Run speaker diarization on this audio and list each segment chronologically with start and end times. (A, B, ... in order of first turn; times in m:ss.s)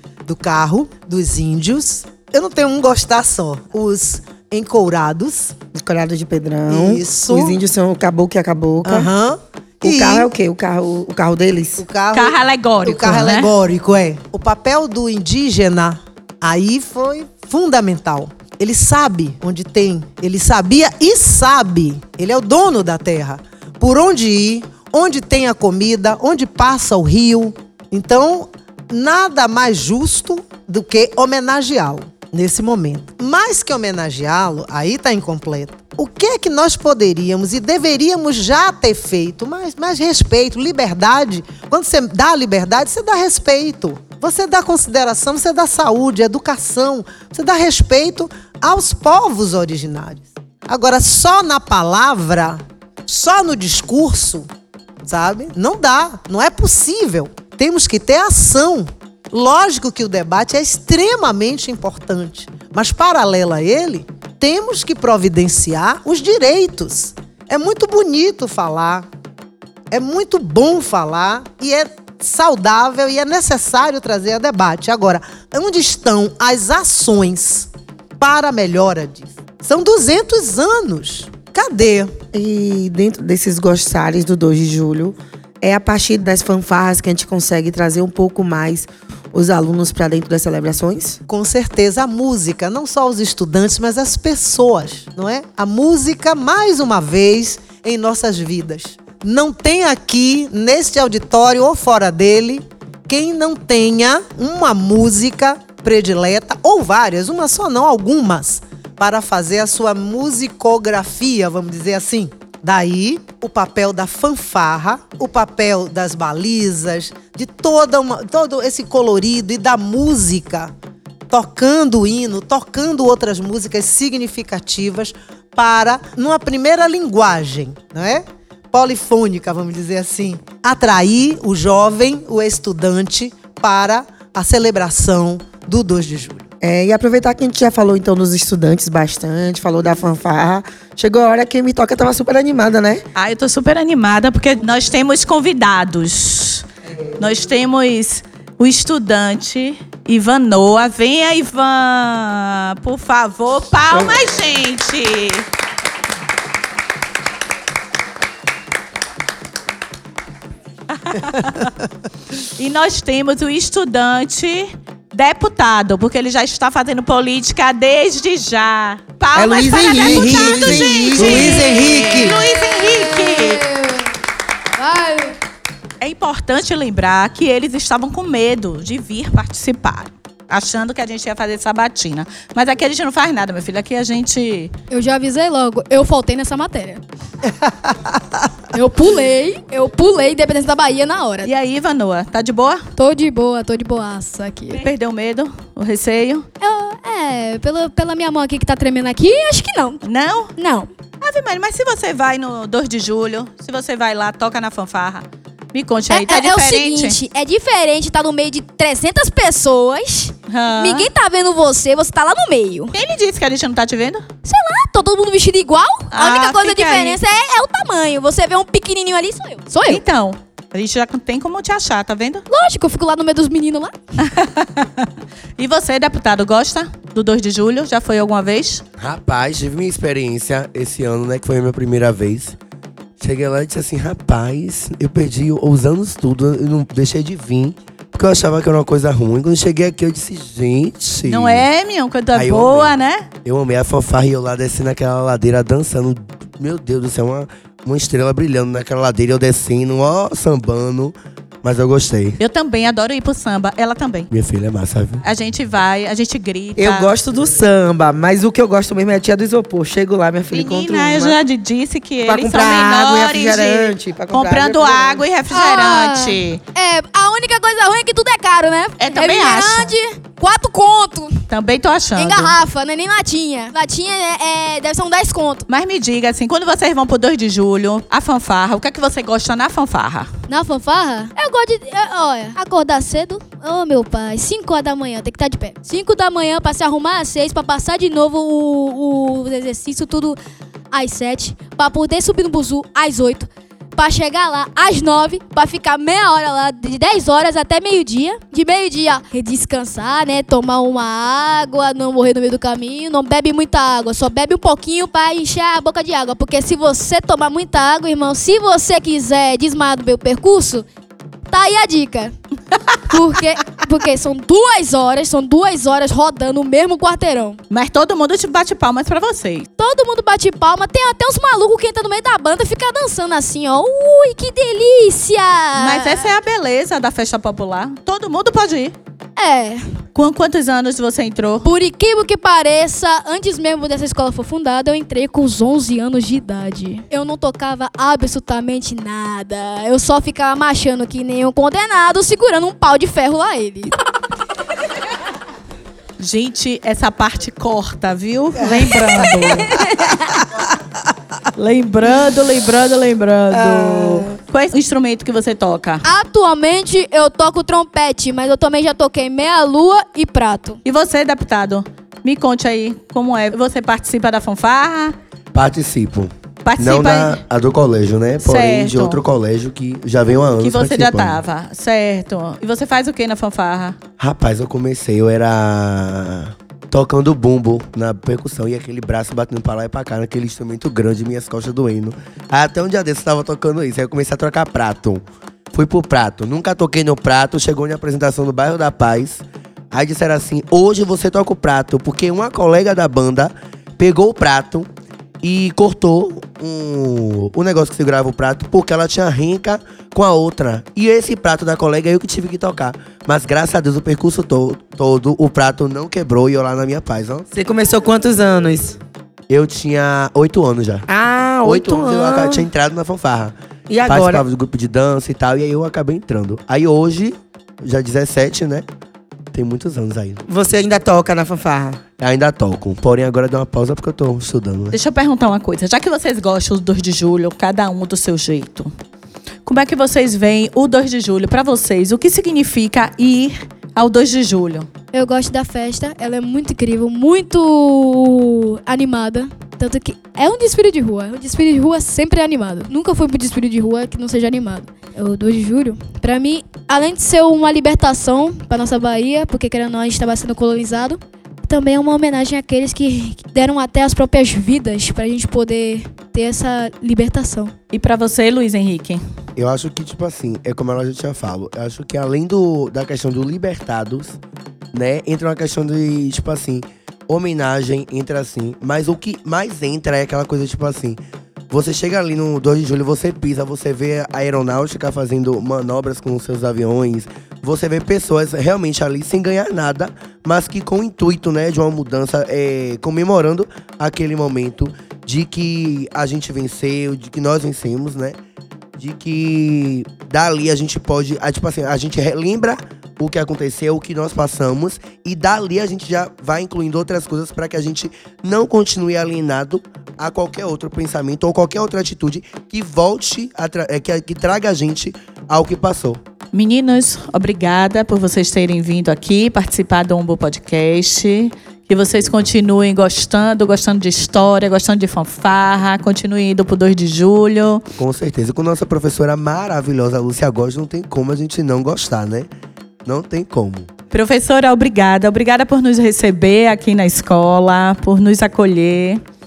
0:00.3-0:05.6 A
0:05.7-0:09.1 B
0:06.7-0:07.6 A
0:08.8-0:10.3 A
0:09.8-0:11.9 B
0:11.8-0:54.5 A
0:12.1-0:13.5 C
0:55.0-1:09.1 A
1:09.9-1:22.2 A
1:22.3-1:31.2 B
1:31.3-2:00.7 A
2:01.3-2:16.5 A
2:16.6-2:23.0 B
2:23.2-2:26.7 C
2:27.2-2:35.5 C
2:41.0-2:41.7 C
2:42.5-2:53.6 C
2:49.4-2:51.7 B
2:49.9-2:52.4 A
2:51.0-2:51.4 D
2:52.3-2:54.1 D
2:54.8-2:55.4 D
2:56.0-3:04.7 C
3:04.9-3:07.0 D
3:08.7-3:11.5 D
3:11.4-3:12.9 C
3:13.0-3:14.9 D
3:14.7-3:16.5 C
3:16.6-3:20.0 D
3:20.0-3:20.5 C
3:20.6-3:20.9 D
3:21.2-3:27.2 C
3:26.1-3:33.0 D
3:30.5-3:31.1 C
3:32.9-3:34.3 C
3:34.4-3:40.0 D
3:36.1-3:37.2 C
3:39.9-3:42.4 C
3:42.5-3:43.9 D
3:44.2-3:48.8 C
3:49.0-3:52.6 E
3:53.2-4:01.7 E
4:01.2-4:03.3 C
4:02.3-4:02.9 E
4:03.4-4:12.4 E
4:12.4-4:14.3 C
4:14.3-4:15.2 E
4:15.2-4:17.1 C
4:16.8-4:21.4 B
4:20.5-4:26.6 C
4:22.2-4:25.2 B
4:25.5-4:31.4 D
4:29.0-4:29.9 C
4:31.5-4:32.6 C
4:32.2-4:35.7 D
4:35.7-4:40.3 C
4:40.5-4:50.4 D
4:50.9-5:10.9 D
5:11.5-5:12.3 D
5:13.1-5:17.6 D
5:17.7-5:19.7 C
5:19.8-5:26.3 D
5:25.8-5:29.0 C
5:29.4-5:30.0 D
5:30.1-5:31.7 C
5:31.6-5:43.9 D
5:46.2-5:50.0 C
5:49.4-5:50.4 D
5:51.6-5:56.0 C
5:53.5-5:54.3 B
5:56.0-6:00.8 D
6:00.8-6:05.2 C
6:05.5-6:11.4 E
6:06.6-6:07.4 C
6:08.4-6:09.2 C
6:10.6-6:14.0 C
6:14.2-6:34.9 E
6:35.4-6:47.5 E
6:47.5-6:49.0 B
6:49.5-6:51.1 E
6:51.1-6:52.7 B
6:51.6-6:53.6 E
6:53.9-6:54.4 B
6:54.1-6:58.8 E
6:59.5-7:00.4 E
7:00.5-7:02.0 B
7:02.2-7:05.0 E
7:04.9-7:08.9 C
7:09.7-7:14.9 C
7:15.1-7:37.7 D
7:37.9-7:39.2 C
7:39.6-7:44.4 E
7:44.9-8:08.4 E
8:09.0-8:26.2 E
8:26.5-8:37.8 C
8:38.0-8:42.5 E
8:43.0-8:43.9 E
8:44.1-8:49.2 C